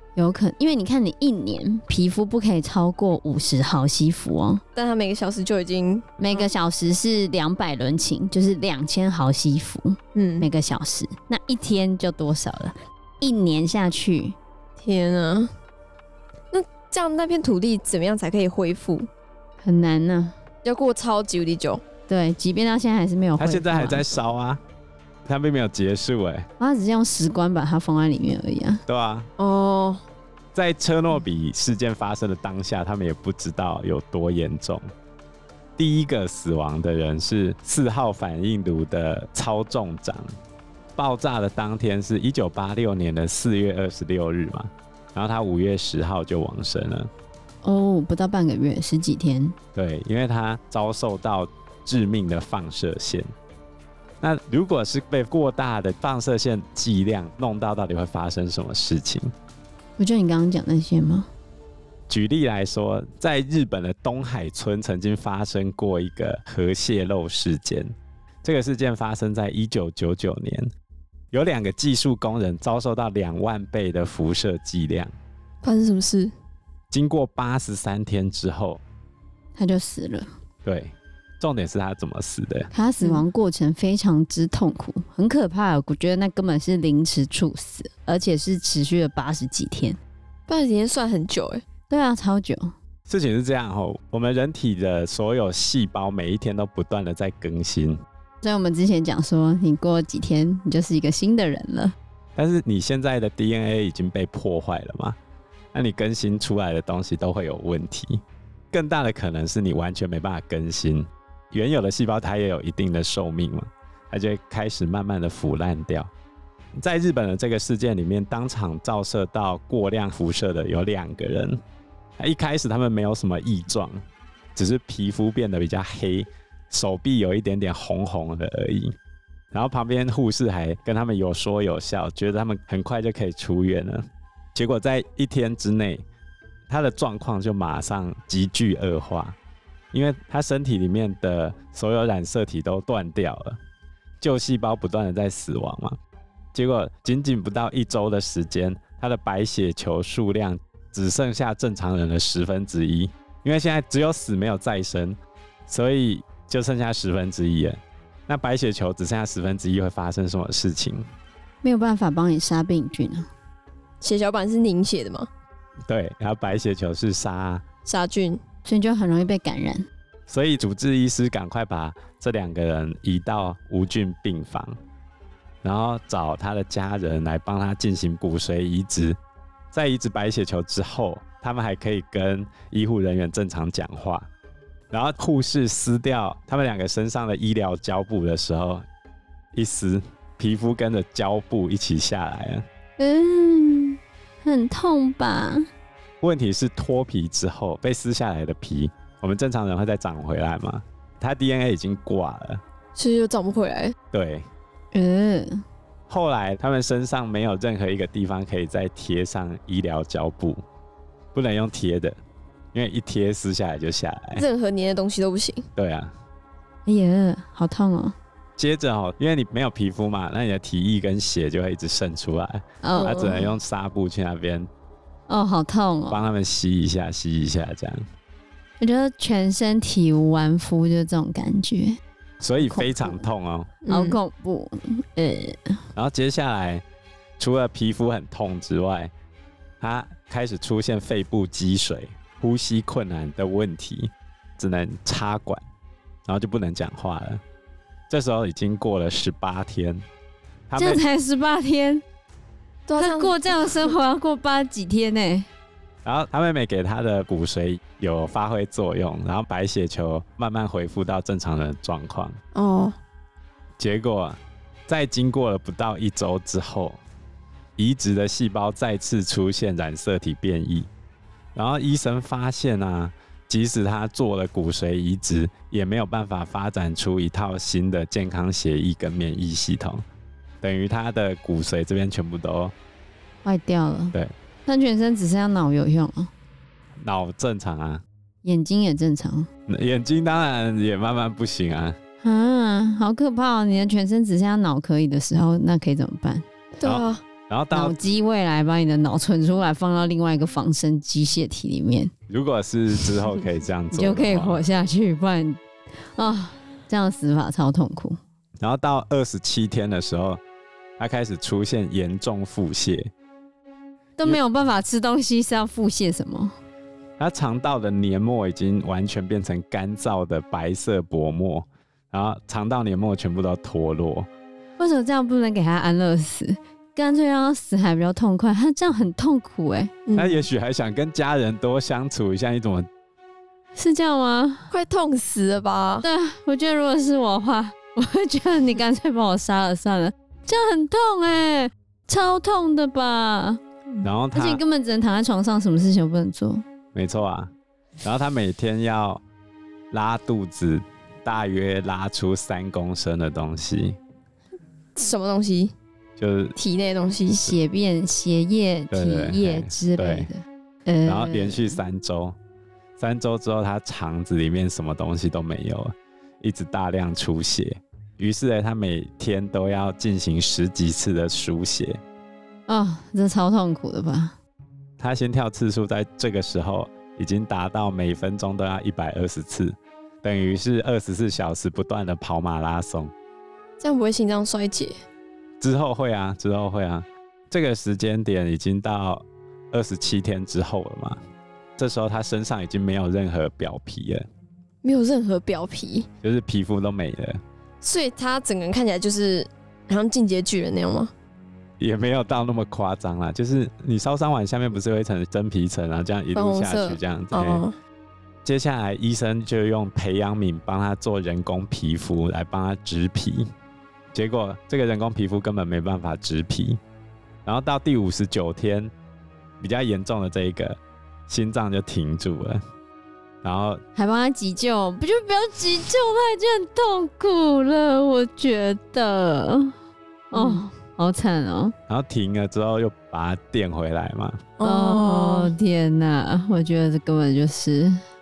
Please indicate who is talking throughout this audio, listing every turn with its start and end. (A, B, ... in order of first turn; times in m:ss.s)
0:00.2-0:04.6 A
0:04.7-0:06.5 B
0:06.2-0:14.4 A
0:10.1-0:10.5 B
0:14.8-0:15.5 B
0:16.5-0:19.1 B
0:19.6-0:20.3 A
0:20.6-0:21.8 B
0:22.1-0:24.0 A
0:23.4-0:24.6 C
0:25.2-0:26.5 C
0:26.6-0:28.8 A
0:28.9-0:29.3 C
0:29.4-0:30.0 B
0:30.5-0:34.8 C
0:35.8-0:40.4 C
0:41.0-0:47.1 C
0:47.6-0:49.6 A
0:49.7-0:53.3 C
0:54.2-0:59.3 C
1:00.0-1:01.3 A
1:02.1-1:07.9 C
1:08.4-1:10.7 C
1:11.3-1:15.1 C
1:15.6-1:16.3 B
1:16.9-1:18.8 C
1:19.6-1:20.3 A
1:20.6-1:22.7 C
1:22.7-1:30.0 A
1:23.0-1:23.2 B
1:30.5-1:31.6 B
1:31.9-1:32.7 A
1:33.1-1:38.0 C
1:38.4-1:41.9 A
1:42.4-1:45.2 C
1:45.7-1:56.1 C
1:56.8-2:01.6 C
2:02.2-2:04.0 C
2:04.5-2:09.0 C
2:09.5-2:16.0 C
2:16.7-2:19.4 C
2:19.9-2:23.6 C
2:24.2-2:26.0 C
2:26.5-2:41.1 C
2:41.6-2:43.3 A
2:44.0-2:45.3 B
2:45.9-2:47.6 C
2:47.8-2:48.4 B
2:48.6-2:49.9 A
2:50.3-2:54.8 C
2:55.6-2:59.2 C
2:59.7-3:04.3 C
3:04.9-3:08.8 C
3:09.5-3:12.6 C
3:13.0-3:15.7 A
3:16.2-3:22.6 C
3:23.0-3:23.9 B
3:24.1-3:24.5 C
3:24.9-3:25.6 A
3:26.1-3:30.6 C
3:31.3-3:32.2 C
3:32.7-3:34.4 C
3:34.4-3:35.7 B
3:35.8-3:36.1 C
3:36.8-3:38.2 A
3:38.6-3:44.7 C
3:42.8-3:43.4 A
3:43.0-3:43.5 B
3:45.3-3:46.2 A
3:46.1-3:48.0 C
3:48.8-3:52.0 A
3:52.4-3:53.7 C
3:52.6-3:53.2 A
3:53.8-3:54.2 B
3:53.9-3:55.8 A
3:55.9-3:56.8 C
3:57.4-3:59.1 C
3:59.8-4:05.6 C
4:06.2-4:07.4 C
4:08.1-4:10.0 C
4:10.7-4:11.0 C
4:10.8-4:12.0 A
4:12.9-4:13.9 B
4:13.0-4:15.5 A
4:16.0-4:22.4 C
4:22.5-4:23.0 B
4:23.8-4:27.0 C
4:27.8-4:30.9 C
4:31.5-4:40.0 C
4:40.6-4:42.7 C
4:43.4-4:46.3 A
4:47.0-4:48.0 C
4:48.4-4:49.5 A
4:49.7-4:52.0 C
4:52.2-4:56.4 A
4:56.8-4:57.2 B
4:56.8-4:57.9 C
4:57.7-5:02.1 A
5:02.3-5:04.6 C
5:03.9-5:05.6 A
5:06.1-5:08.2 A
5:08.6-5:10.4 C
5:11.0-5:13.1 C
5:14.2-5:16.5 A
5:17.2-5:24.3 C
5:24.8-5:29.9 A
5:30.1-5:30.4 B
5:30.1-5:32.9 C
5:33.8-5:34.7 A
5:34.7-5:36.0 B
5:36.0-5:43.6 A
5:44.0-5:44.6 C
5:44.3-5:46.6 A
5:46.9-5:49.2 C
5:49.9-5:54.0 C
5:55.0-5:55.7 B
5:56.2-5:56.6 C
5:56.6-5:57.5 B
5:57.4-6:01.8 A
5:58.9-6:00.3 C
6:01.0-6:02.4 C
6:03.0-6:12.0 C
6:12.7-6:14.4 A
6:15.0-6:23.1 C
6:23.8-6:25.0 B
6:25.6-6:31.2 C
6:31.8-6:34.3 C
6:34.8-6:36.1 B
6:36.2-6:37.4 C
6:37.8-6:41.1 B
6:41.8-6:47.6 C
6:46.3-6:47.8 B
6:48.4-6:53.5 C
6:54.1-6:56.8 C
6:57.4-6:58.9 C
6:59.6-7:02.6 C
7:03.4-7:03.8 C
7:04.0-7:09.7 A
7:10.3-7:10.6 B
7:10.3-7:11.7 A
7:11.9-7:14.4 C
7:14.6-7:15.5 B
7:14.6-7:18.0 A